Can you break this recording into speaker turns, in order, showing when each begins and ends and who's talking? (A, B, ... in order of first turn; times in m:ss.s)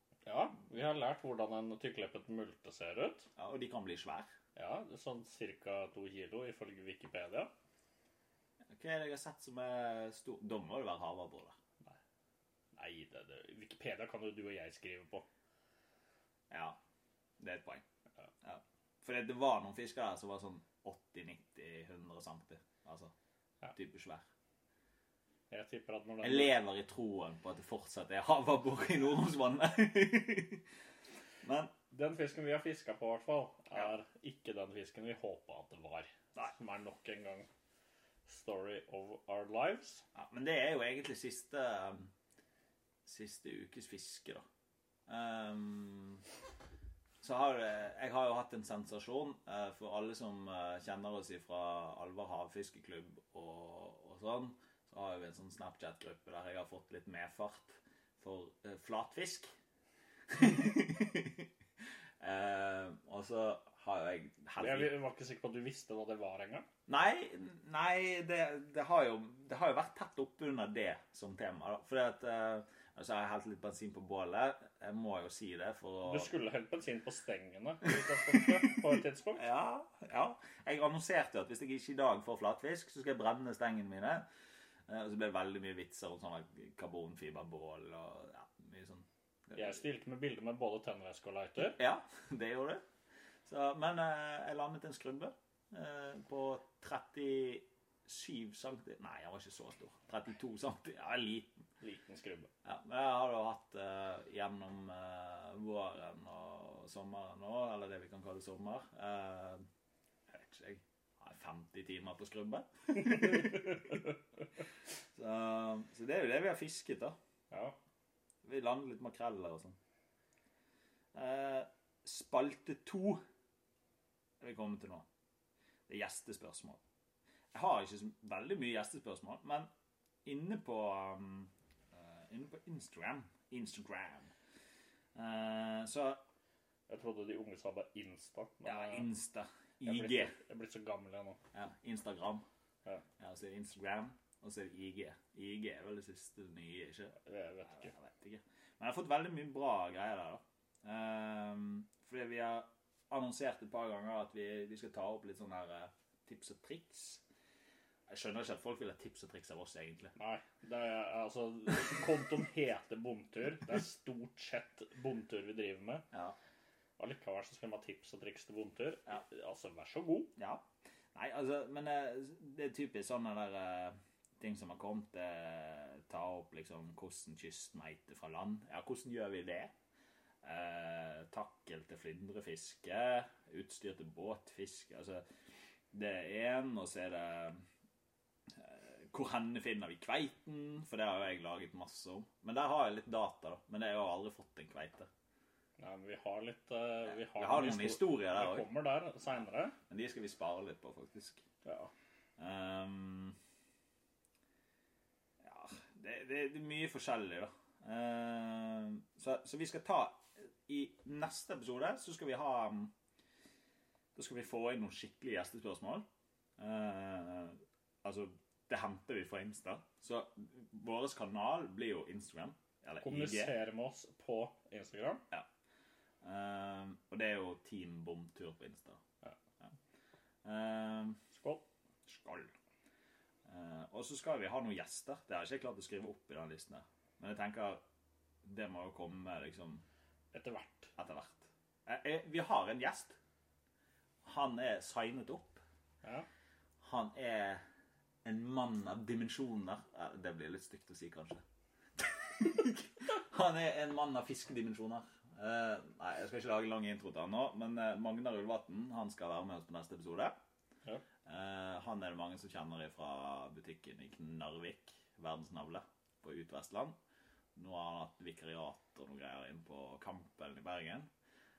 0:00.3-0:03.3 A
0:03.4-0:04.3 B
0:04.6-0:07.5 A
0:08.7-0:11.6 B
0:12.7-0:15.3 A
0:16.5-0:16.8 B
0:17.4-0:17.8 B
0:18.4-0:23.1 B
0:23.7-0:24.3 B
0:25.5-0:26.6 A
0:26.2-0:30.7 B
0:31.4-0:31.7 B
0:31.9-0:37.5 A
0:38.3-0:40.0 A
0:40.2-0:42.1 B
0:43.0-0:44.5 B
0:45.1-0:46.2 B
0:47.2-0:59.5 B
1:00.3-1:01.5 B
1:02.2-1:04.9 B
1:04.6-1:06.7 A
1:06.9-1:16.3 B
1:16.0-1:19.4 A
1:19.4-1:24.2 B
1:24.9-1:29.8 B
1:29.6-1:31.8 A
1:31.7-1:32.8 B
1:33.5-1:41.5 B
1:41.8-1:42.5 A
1:42.6-1:49.6 B
1:50.3-1:54.1 B
1:55.2-1:57.2 B
1:57.5-1:57.8 A
1:58.4-1:59.8 B
2:01.1-2:03.2 B
2:04.4-2:05.0 B
2:05.9-2:06.8 B
2:07.5-2:09.7 B
2:10.2-2:14.3 B
2:15.2-2:16.2 B
2:16.9-2:19.1 A
2:18.6-2:20.4 B
2:19.8-2:21.4 A
2:21.5-2:22.5 B
2:23.2-2:27.2 B
2:27.2-2:27.9 A
2:27.7-2:37.2 B
2:38.1-2:40.1 B
2:40.2-2:46.1 A
2:47.0-2:50.3 A
2:50.4-2:59.7 B
3:00.4-3:05.2 B
3:05.9-3:07.6 B
3:08.5-3:15.1 B
3:15.8-3:19.8 A
3:17.1-3:18.7 B
3:19.9-3:21.4 B
3:21.6-3:21.9 A
3:22.4-3:23.4 B
3:25.4-3:32.9 B
3:34.2-3:36.0 B
3:36.6-3:43.5 B
3:43.0-3:45.2 A
3:46.2-3:49.0 B
3:50.4-3:51.2 B
3:51.3-3:51.7 A
3:52.1-3:52.5 B
3:53.4-3:57.8 B
3:58.4-3:59.8 B
4:00.3-4:00.9 A
4:01.0-4:03.2 B
4:04.2-4:05.6 B
4:06.8-4:07.6 B
4:08.2-4:11.4 B
4:12.0-4:20.4 B
4:21.2-4:27.0 B
4:27.6-4:31.1 B